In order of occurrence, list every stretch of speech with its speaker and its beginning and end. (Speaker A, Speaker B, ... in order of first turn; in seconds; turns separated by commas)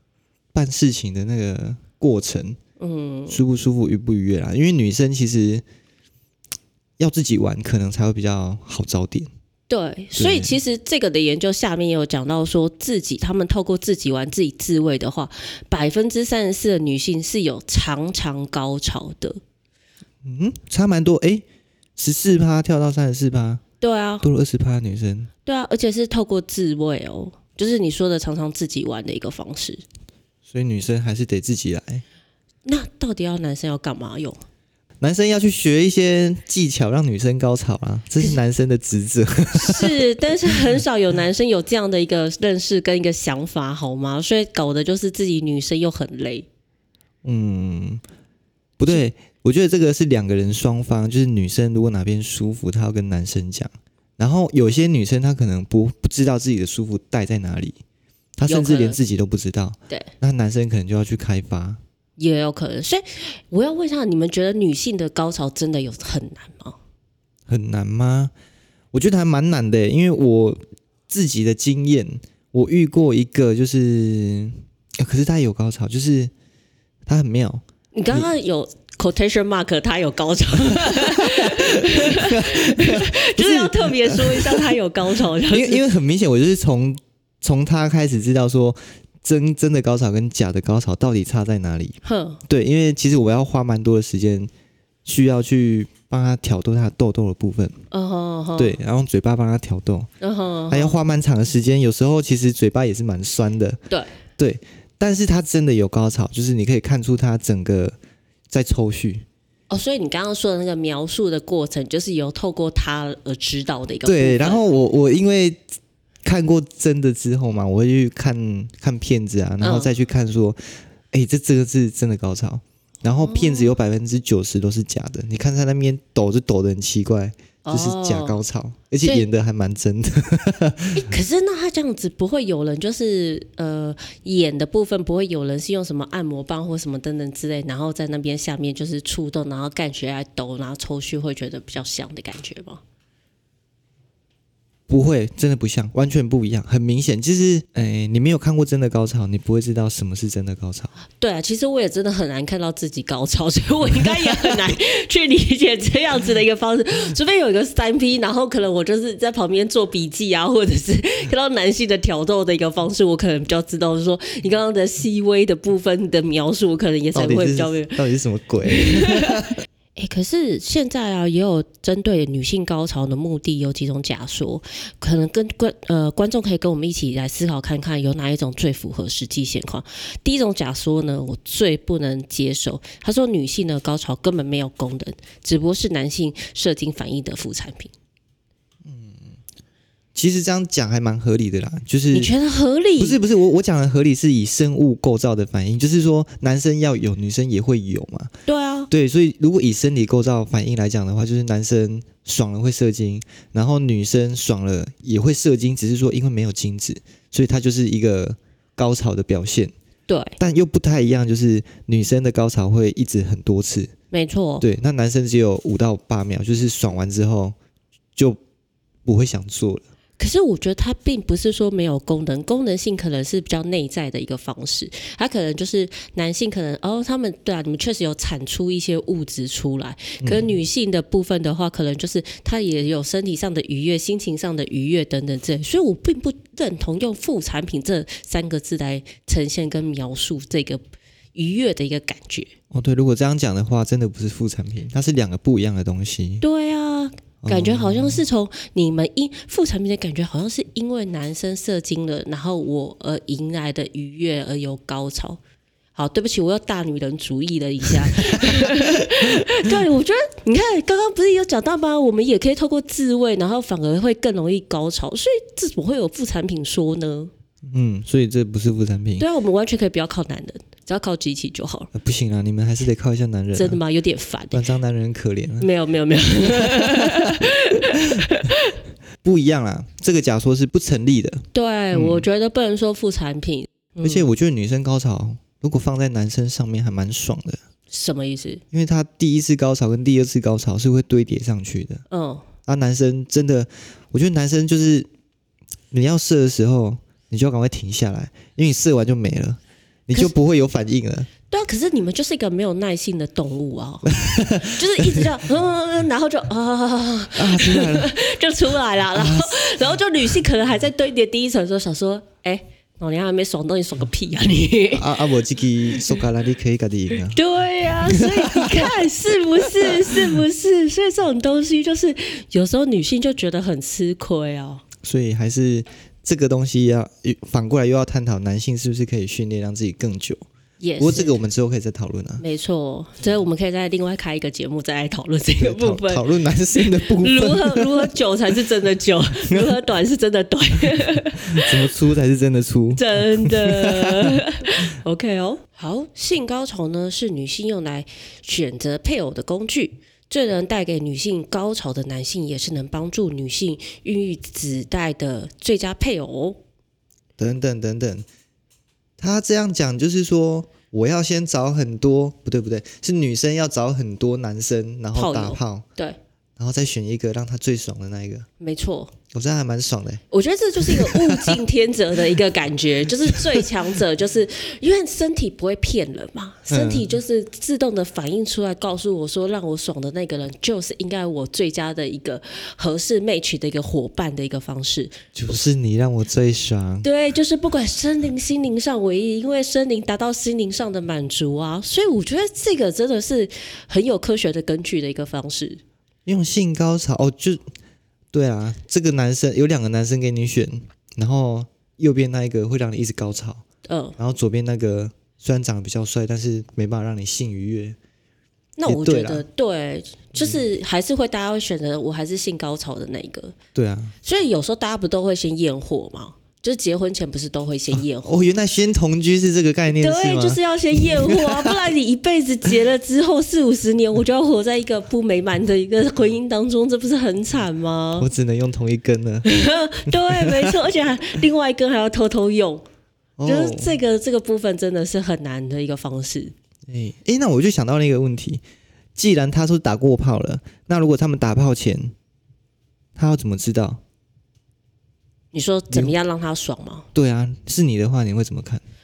Speaker A: 0.5-2.6, Speaker B: 2.8-3.4, Speaker A: 3.3-5.6, Speaker A: 7.0-9.3, Speaker B: 9.7-19.4, Speaker A: 10.2-10.6, Speaker A: 20.2-21.4, Speaker A: 22.0-23.6, Speaker B: 23.8-24.2, Speaker A: 24.2-25.3, Speaker B: 25.5-29.8, Speaker A: 30.5-32.0, Speaker B: 32.6-34.4, Speaker A: 35.0-40.0, Speaker B: 39.5-46.5, Speaker A: 47.2-48.0, Speaker A: 48.8-57.8, Speaker A: 58.4-61.8, Speaker B: 58.5-59.0, Speaker B: 62.2-66.8, Speaker A: 67.5-68.3, Speaker A: 68.9-76.3, Speaker A: 77.1-78.3, Speaker B: 77.9-85.8, Speaker A: 80.8-84.7, Speaker A: 85.5-94.5, Speaker B: 92.0-92.4, Speaker A: 95.0-97.8, Speaker B: 97.9-98.8, Speaker A: 98.6-100.1, Speaker B: 100.2-101.0, Speaker A: 100.7-103.8, Speaker A: 104.4-108.0, Speaker A: 108.5-109.2, Speaker B: 109.7-114.6, Speaker A: 114.1-115.6, Speaker A: 116.2-120.6, Speaker B: 119.6-119.9, Speaker A: 121.1-131.0, Speaker B: 123.2-123.7, Speaker B: 127.7-128.4, Speaker B: 130.9-142.8, Speaker A: 144.9-150.9, Speaker B: 151.2-168.0, Speaker A: 167.1-169.6, Speaker B: 168.7-169.4, Speaker B: 170.0-187.9, Speaker A: 188.8-189.2, Speaker A: 190.2-192.3, Speaker B: 192.1-193.2, Speaker A: 193.0-198.3, Speaker B: 198.5-198.9, Speaker A: 198.9-209.7, Speaker B: 210.1-210.4, Speaker A: 210.4-213.9, Speaker B: 214.1-214.7, Speaker A: 214.6-217.6, Speaker A: 219.1-219.8, Speaker B: 220.2-240.8, Speaker A: 230.2-230.5, Speaker B: 241.3-242.5, Speaker A: 242.7-246.4, Speaker B: 246.4-255.4, Speaker A: 247.4-248.2, Speaker B: 255.9-267.3, Speaker A: 258.2-259.7, Speaker A: 267.7-269.3, Speaker B: 269.2-271.9, Speaker A: 271.9-273.8, Speaker B: 273.6-274.6, Speaker A: 274.5-275.7, Speaker B: 275.6-278.8, Speaker A: 276.4-278.3, Speaker A: 279.2-282.2, Speaker B: 281.5-284.3, Speaker A: 284.0-287.6, Speaker B: 287.9-288.6, Speaker A: 288.7-292.0, Speaker B: 292.1-292.5, Speaker A: 292.7-295.1, Speaker A: 295.9-301.3, Speaker B: 301.5-315.2, Speaker A: 304.1-305.4, Speaker A: 307.4-308.1, Speaker A: 309.1-309.8, Speaker A: 314.9-317.4, Speaker B: 317.3-324.8, Speaker A: 318.1-318.9, Speaker A: 319.8-320.4, Speaker A: 325.0-330.4, Speaker B: 330.8-331.4, Speaker A: 331.0-332.4, Speaker B: 332.4-341.9, Speaker A: 335.6-338.1, Speaker A: 341.1-344.4, Speaker B: 343.0-356.6, Speaker A: 357.4-358.3, Speaker A: 359.2-365.9, Speaker B: 365.1-366.2, Speaker A: 366.6-368.5, Speaker B: 368.6-369.1, Speaker A: 369.3-370.2, Speaker B: 370.3-385.2, Speaker A: 370.8-371.6, Speaker A: 376.7-377.1, Speaker A: 385.4-387.1, Speaker B: 387.0-395.8, Speaker A: 396.3-397.7, Speaker A: 398.3-403.6, Speaker B: 403.9-404.2, Speaker A: 404.2-408.0, Speaker B: 408.8-413.6, Speaker A: 408.9-409.4, Speaker A: 410.3-410.6, Speaker A: 413.8-414.1, Speaker B: 414.2-418.4, Speaker A: 417.9-421.8, Speaker B: 419.9-428.3, Speaker A: 428.2-429.5, Speaker B: 429.4-432.9, Speaker A: 430.1-430.8, Speaker A: 433.4-434.0, Speaker B: 433.4-436.5, Speaker A: 436.9-438.6, Speaker A: 439.2-442.1, Speaker A: 443.2-444.0, Speaker B: 445.5-447.1, Speaker A: 447.1-448.8